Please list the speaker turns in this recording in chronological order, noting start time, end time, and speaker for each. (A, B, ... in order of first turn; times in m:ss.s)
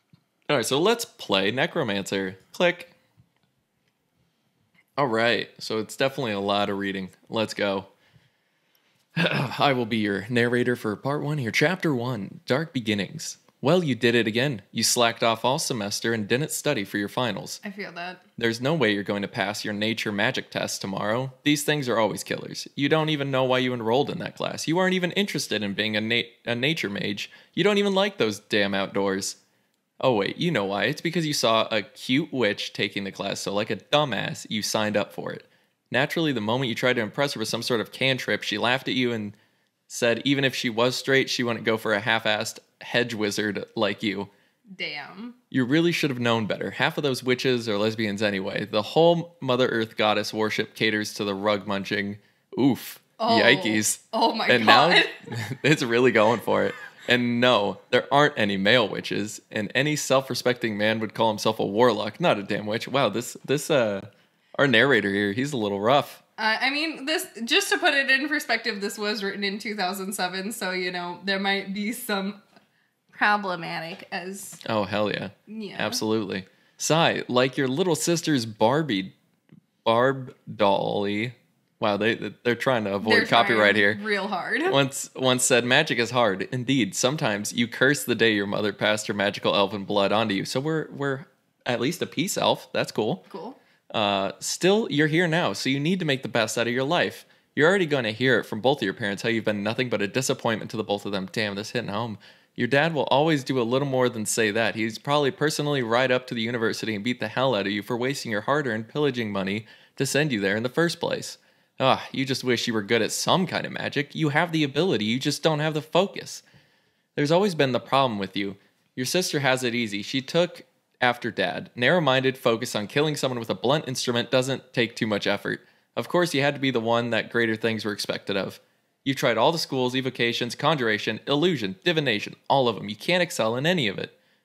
0:00.5-0:02.9 A
0:05.0-0:07.9 A
0:09.2-0:17.6 A
0:17.6-0:18.2 B
0:18.4-0:29.4 A
0:30.0-0:39.4 A
0:39.9-0:44.3 A
0:44.8-0:45.4 B
0:45.5-1:06.2 A
0:53.2-0:55.3 B
1:06.4-1:12.4 B
1:13.1-1:14.6 B
1:14.6-1:19.2 A
1:15.5-1:16.0 B
1:19.8-1:24.0 A
1:23.0-1:24.8 B
1:24.7-1:33.3 A
1:33.3-1:33.6 B
1:33.9-1:56.4 A
1:57.2-2:14.1 A